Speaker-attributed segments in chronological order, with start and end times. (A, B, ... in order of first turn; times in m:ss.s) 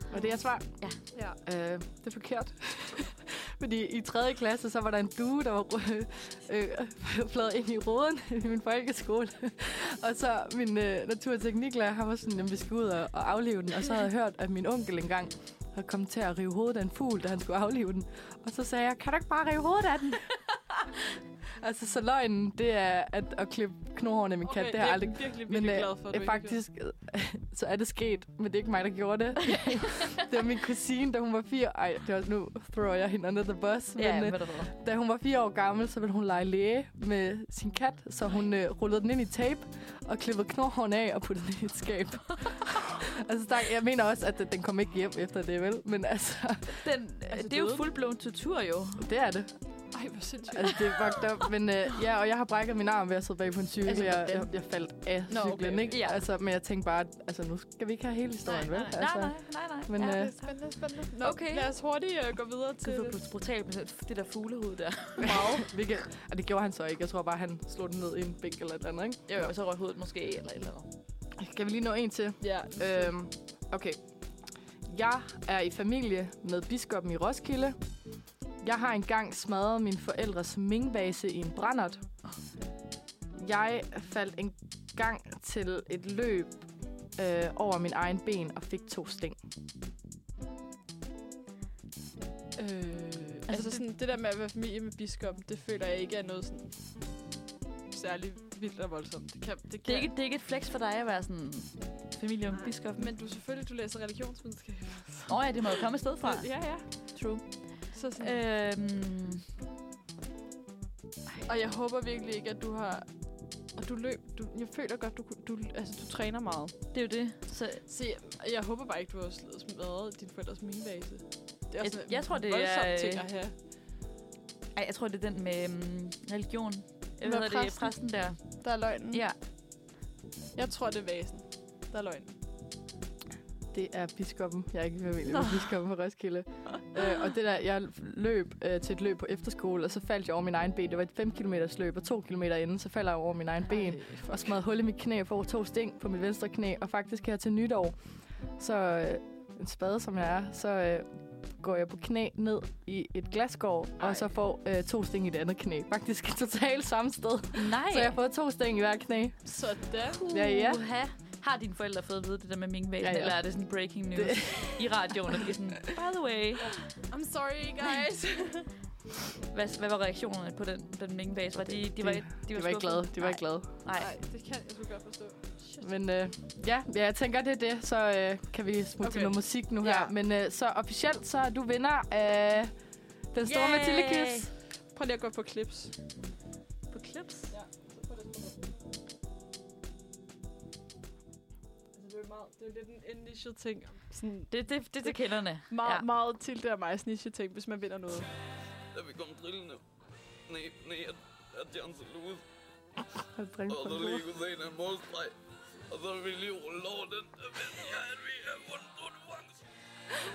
0:00.1-0:00.7 A
0:01.4-0:20.3 A
0:21.6-0:46.8 A
0:24.4-0:26.6 B
0:34.0-0:34.7 C
0:46.7-0:49.0 C
0:47.3-0:47.8 B
0:49.0-0:50.0 A
0:49.9-0:50.9 B
0:50.5-1:00.3 A
0:53.9-0:54.5 B
0:55.3-0:55.9 B
0:55.9-0:56.2 C
0:58.5-1:00.5 C
1:00.0-1:03.2 B
1:01.2-1:01.7 C
1:02.8-1:05.4 C
1:05.2-1:05.6 B
1:05.5-1:09.5 A
1:09.3-1:10.9 C
1:11.4-1:14.0 A
1:12.4-1:13.1 B
1:14.8-1:17.8 A
1:18.6-1:22.0 A
1:23.3-1:26.6 A
1:27.1-1:29.4 A
1:32.6-1:36.7 B
1:33.5-1:33.8 C
1:37.9-1:40.1 B
1:39.8-1:43.1 C
1:42.5-1:47.1 B
1:45.3-1:49.4 C
1:47.9-1:48.4 B
1:51.4-1:56.8 B
1:56.9-1:57.8 C
1:57.8-2:03.5 B
2:01.8-2:03.2 C
2:04.8-2:09.4 C
2:07.2-2:09.2 B
2:10.5-2:12.4 B
2:13.7-2:28.0 A
2:23.7-2:24.5 B
2:28.6-2:39.5 A
2:34.0-2:34.2 B
2:37.5-2:38.2 C
2:39.4-2:40.2 B
2:40.2-2:46.7 C
2:40.3-2:40.8 A
2:43.0-2:43.5 A
2:44.1-2:44.8 A
2:47.0-2:48.7 B
2:49.5-2:54.1 C
2:51.8-2:53.7 A
2:53.9-2:55.9 B
2:55.8-3:02.7 A
2:59.0-3:00.1 B
3:03.3-3:04.5 A
3:03.4-3:04.5 C
3:04.9-3:05.9 B
3:06.9-3:07.5 C
3:07.5-3:08.9 B
3:11.9-3:18.3 B
3:14.5-3:16.0 C
3:18.9-3:19.8 D
3:20.4-3:22.4 D
3:23.4-3:24.2 A
3:23.7-3:25.3 D
3:25.9-3:29.6 D